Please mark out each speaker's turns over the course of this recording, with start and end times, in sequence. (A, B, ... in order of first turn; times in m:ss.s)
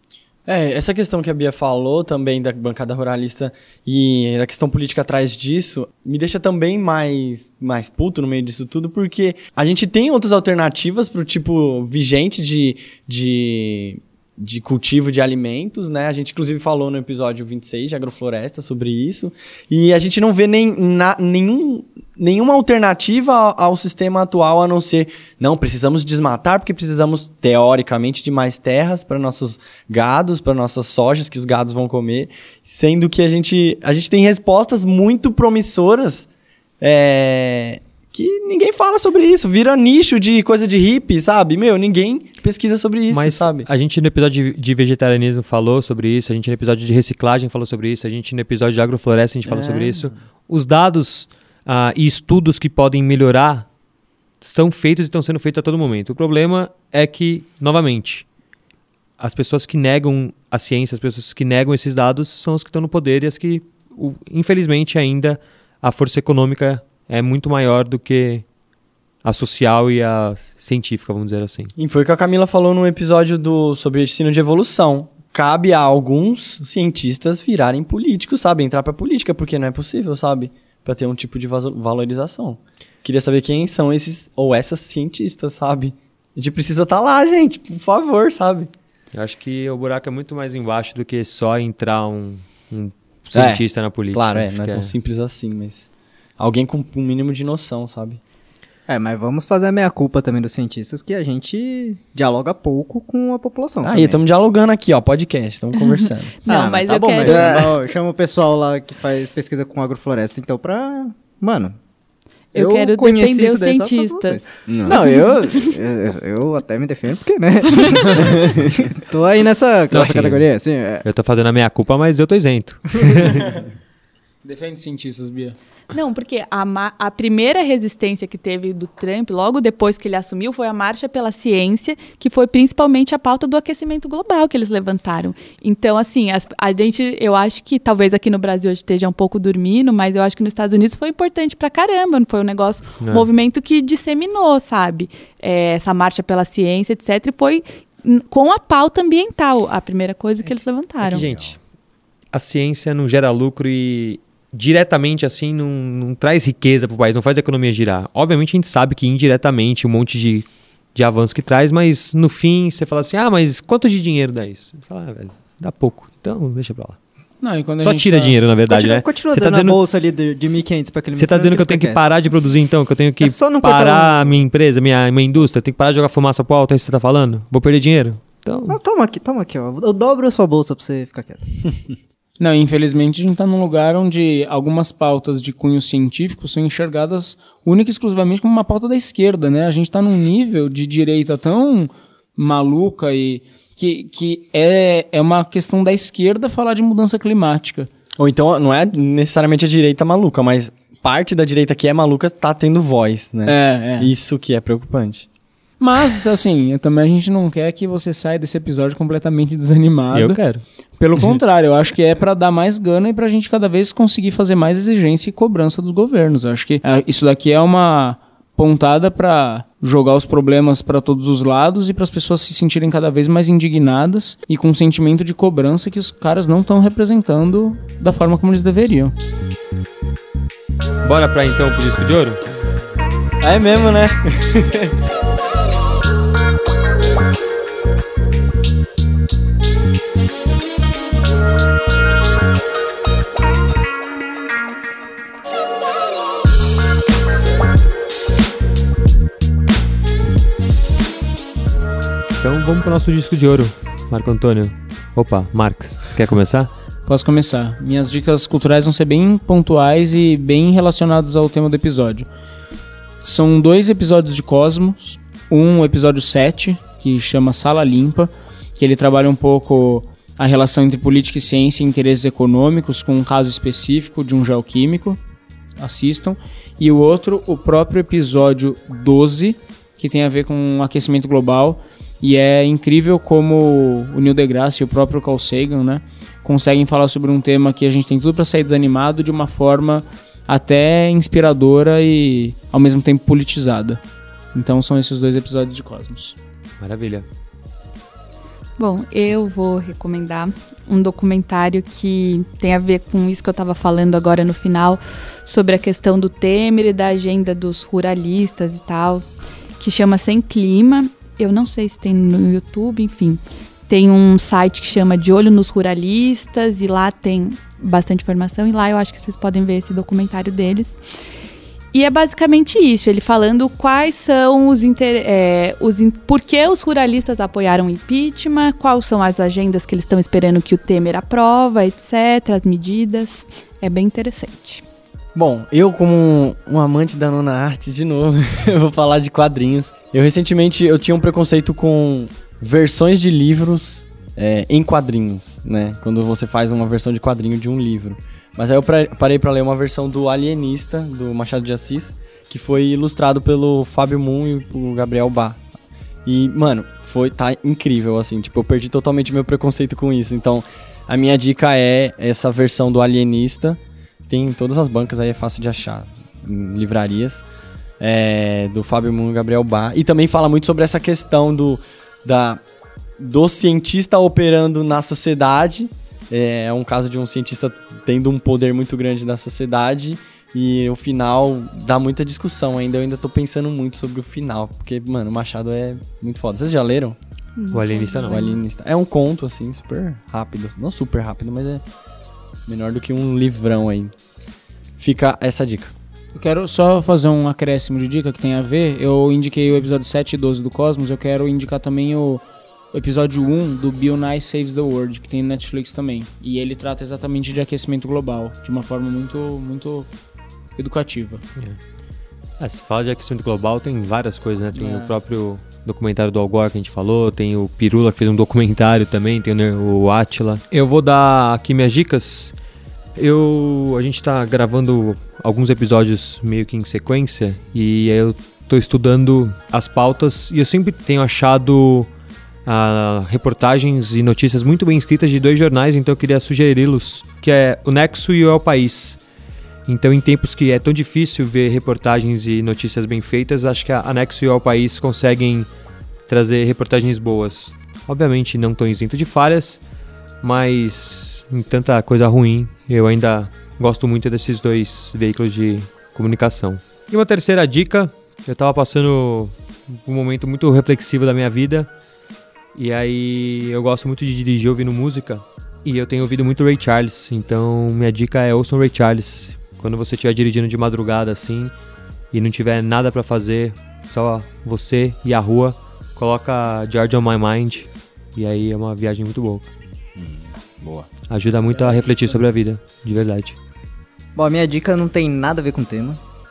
0:00.5-0:36.3 A
0:36.8-0:43.7 A
0:43.1-0:53.7 B
0:49.5-0:50.1 A
0:54.4-0:58.2 B
0:59.2-1:08.4 B
1:09.2-1:11.7 B
1:11.8-1:28.7 A
1:29.1-1:34.9 B
1:33.3-1:38.2 A
1:38.9-1:44.2 C
1:43.8-1:46.4 A
1:45.8-1:47.6 D
1:46.5-1:51.8 C
1:47.2-1:47.8 A
1:52.5-1:55.8 D
1:52.5-2:01.0 C
1:57.8-1:58.3 D
1:59.9-2:00.4 B
2:01.0-2:03.5 B
2:03.3-2:03.6 E
2:04.4-2:05.6 E
2:05.9-2:31.2 D
2:23.0-2:23.3 B
2:31.0-2:31.6 B
2:32.3-2:47.0 B
2:47.4-2:48.4 E
2:47.8-2:49.8 B
2:48.7-2:52.0 C
2:51.2-2:58.8 B
2:53.2-2:54.4 C
2:58.7-3:01.9 C
3:02.4-3:17.9 E
3:18.2-3:25.3 A
3:23.5-3:24.1 E
3:25.8-3:30.4 E
3:30.1-3:30.6 B
3:31.0-3:49.1 E
3:51.0-3:52.4 B
3:53.4-3:55.0 A
4:12.4-4:16.7 B
4:17.1-4:22.3 E
4:23.2-4:35.2 E
4:35.8-4:54.0 E
4:54.5-4:56.4 E
4:56.8-4:57.3 B
4:58.8-5:09.2 D
5:09.8-5:21.0 D
5:21.9-5:34.8 D
5:35.4-5:55.6 A
5:56.2-6:07.4 A
6:08.0-6:12.6 A
6:13.2-6:27.2 A
6:27.6-6:28.6 D
6:27.7-6:28.5 B
6:28.2-6:31.8 A
6:32.7-6:34.1 A
6:35.0-6:35.9 A
6:36.4-6:50.1 E
6:50.8-6:51.4 E
6:52.6-7:02.5 B
6:54.8-6:55.1 E
7:03.2-7:12.1 B
7:12.7-7:19.2 B
7:19.9-7:25.7 B
7:26.3-7:29.8 B
7:30.4-7:41.9 B
7:42.8-7:51.7 B
7:52.3-7:59.7 B
8:00.2-8:01.1 C
8:01.3-8:03.6 B
8:04.4-8:06.2 C